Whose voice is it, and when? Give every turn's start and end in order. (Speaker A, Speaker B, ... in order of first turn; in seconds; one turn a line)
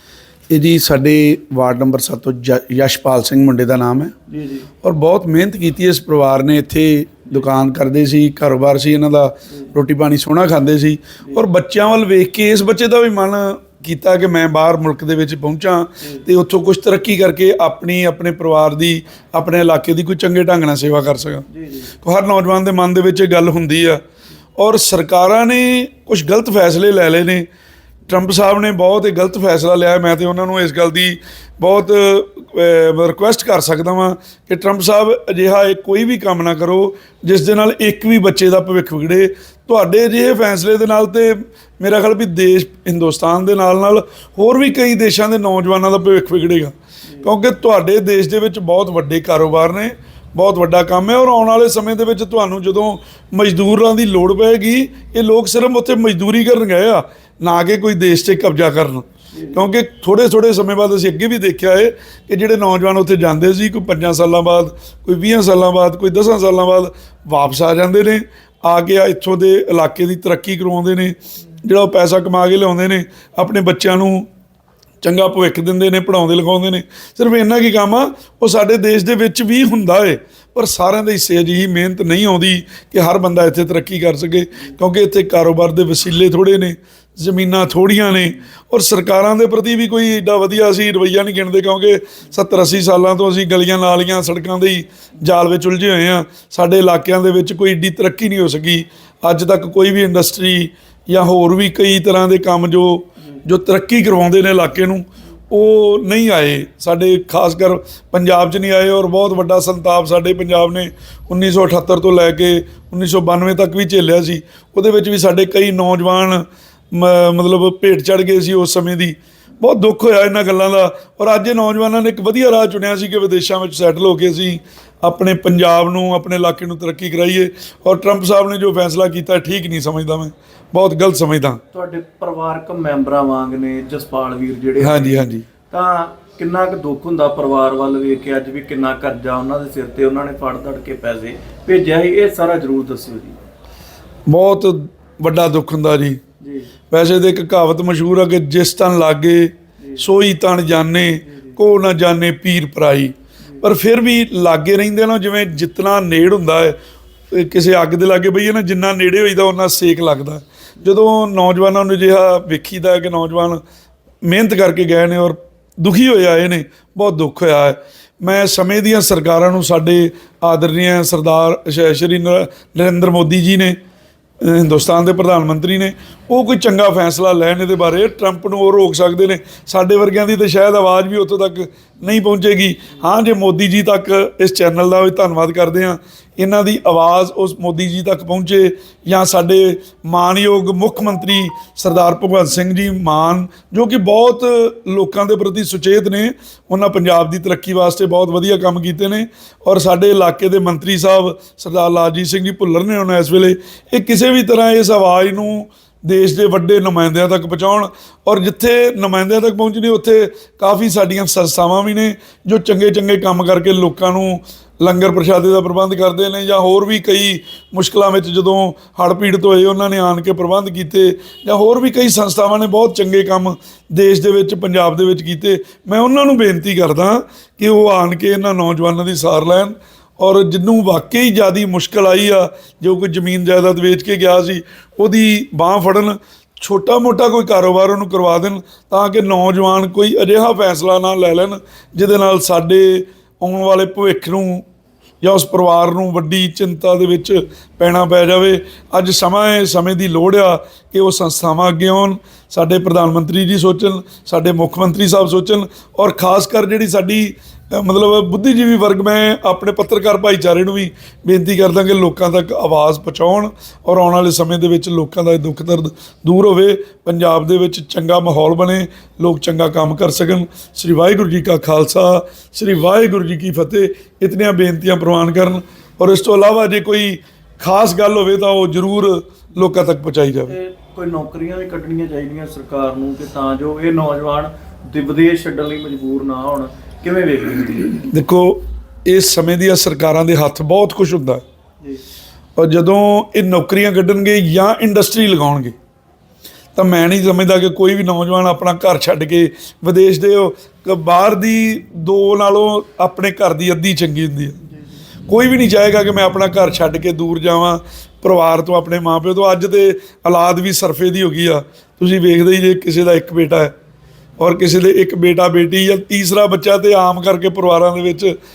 Speaker A: 0.5-4.1
Speaker B: 4.3-4.7
Speaker A: 4.8-21.4
Speaker B: 21.5-21.9
Speaker A: 22.0-24.0
Speaker A: 24.6-27.4
Speaker A: 28.1-74.3
Speaker B: 59.3-59.6
Speaker A: 75.0-131.6
Speaker B: 131.7-143.4
Speaker A: 134.8-135.4
Speaker A: 144.3-146.2
Speaker B: 146.4-146.7
Speaker A: 146.9-156.8
Speaker B: 151.3-151.5
Speaker A: 157.3-163.6
Speaker A: 164.2-173.8
Speaker A: 174.4-244.6
Speaker A: 245.2-280.6
Speaker B: 280.5-288.0
Speaker A: 288.0-291.4
Speaker A: 292.6-295.7
Speaker A: 296.7-304.6
Speaker A: 305.3-313.7
Speaker A: 314.4-318.3